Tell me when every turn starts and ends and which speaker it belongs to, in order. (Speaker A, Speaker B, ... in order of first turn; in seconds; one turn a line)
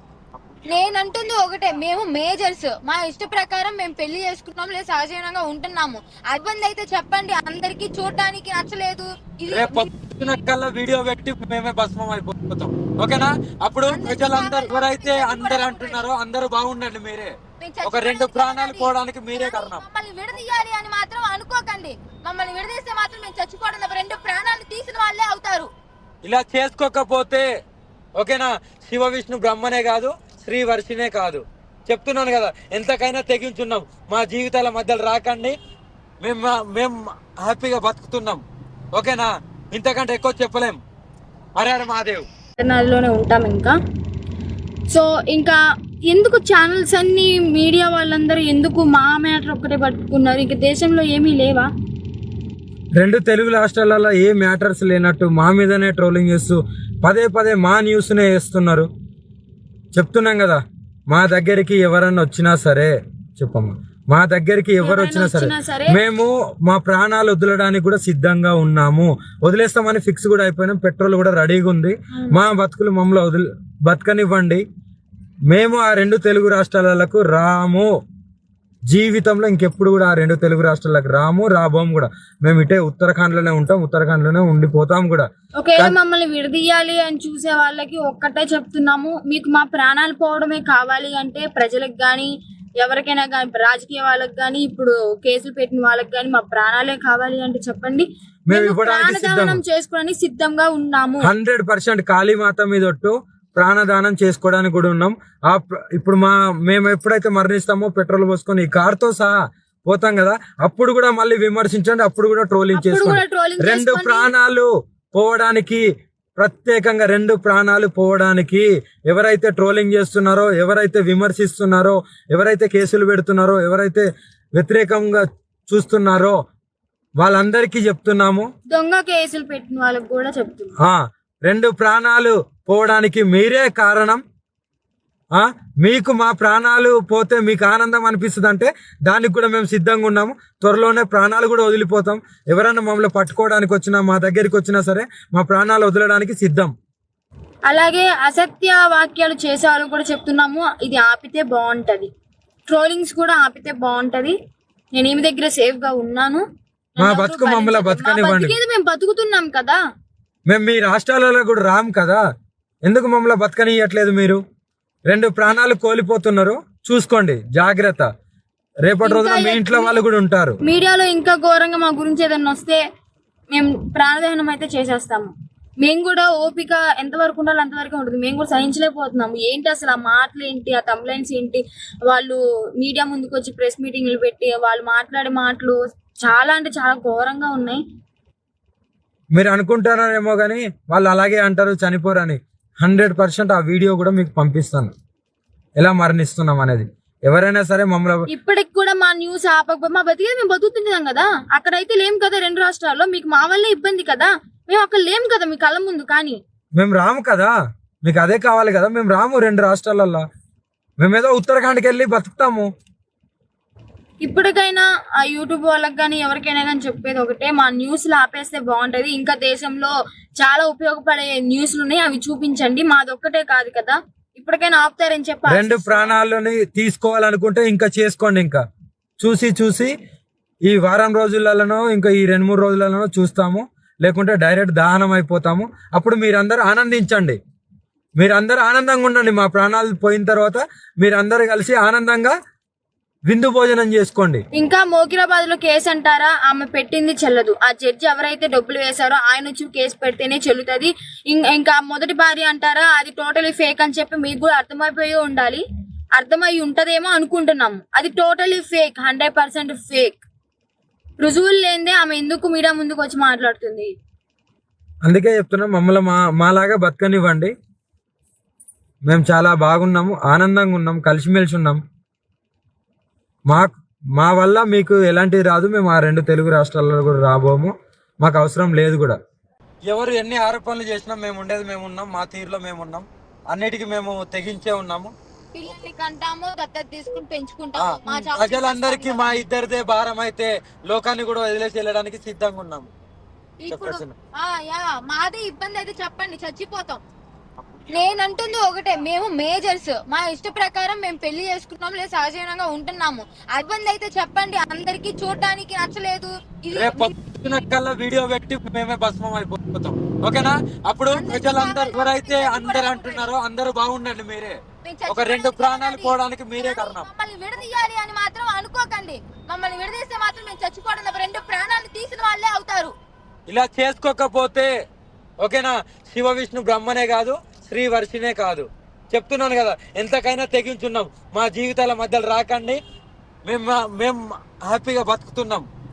Speaker A: 0.7-9.9
Speaker B: 9.5-19.8
Speaker A: 13.8-16.0
Speaker A: 17.6-25.7
Speaker B: 26.2-27.5
Speaker B: 28.2-35.5
Speaker B: 36.2-38.4
Speaker B: 38.9-40.8
Speaker B: 41.6-42.2
Speaker C: 42.6-43.7
Speaker C: 44.9-45.6
Speaker C: 46.1-51.7
Speaker B: 53.0-58.9
Speaker B: 59.9-74.6
Speaker C: 64.8-66.0
Speaker B: 75.5-77.9
Speaker B: 78.9-85.9
Speaker C: 85.6-92.3
Speaker C: 92.8-101.2
Speaker B: 98.5-99.6
Speaker B: 101.2-109.3
Speaker B: 109.9-115.8
Speaker C: 112.7-114.3
Speaker B: 116.4-126.4
Speaker B: 127.2-128.5
Speaker C: 128.7-130.7
Speaker B: 130.8-134.2
Speaker B: 135.3-146.7
Speaker C: 147.7-152.1
Speaker C: 152.7-154.3
Speaker C: 154.9-156.4
Speaker C: 157.0-159.8
Speaker B: 157.0-158.5
Speaker B: 160.5-162.2
Speaker B: 162.8-164.4
Speaker B: 165.1-168.1
Speaker B: 168.8-170.6
Speaker C: 169.0-169.9
Speaker C: 170.7-172.8
Speaker C: 173.5-175.3
Speaker C: 175.8-187.8
Speaker B: 189.3-194.9
Speaker B: 195.8-198.2
Speaker C: 198.3-206.4
Speaker B: 206.8-207.5
Speaker B: 208.0-210.2
Speaker B: 211.0-212.7
Speaker C: 214.2-226.1
Speaker B: 225.5-228.6
Speaker B: 229.2-229.9
Speaker B: 230.7-237.4
Speaker B: 238.2-242.3
Speaker B: 243.3-244.4
Speaker C: 244.5-255.6
Speaker C: 256.1-260.2
Speaker C: 261.2-263.9
Speaker B: 265.0-267.5
Speaker B: 269.1-271.8
Speaker B: 273.5-279.1
Speaker B: 279.9-285.1
Speaker A: 285.5-289.4
Speaker B: 287.8-292.9
Speaker A: 293.6-297.0
Speaker B: 293.7-294.1
Speaker A: 297.9-307.1
Speaker B: 306.7-317.1
Speaker A: 311.1-313.2
Speaker A: 314.8-322.9
Speaker B: 323.5-324.7
Speaker B: 325.4-332.8
Speaker B: 333.5-335.6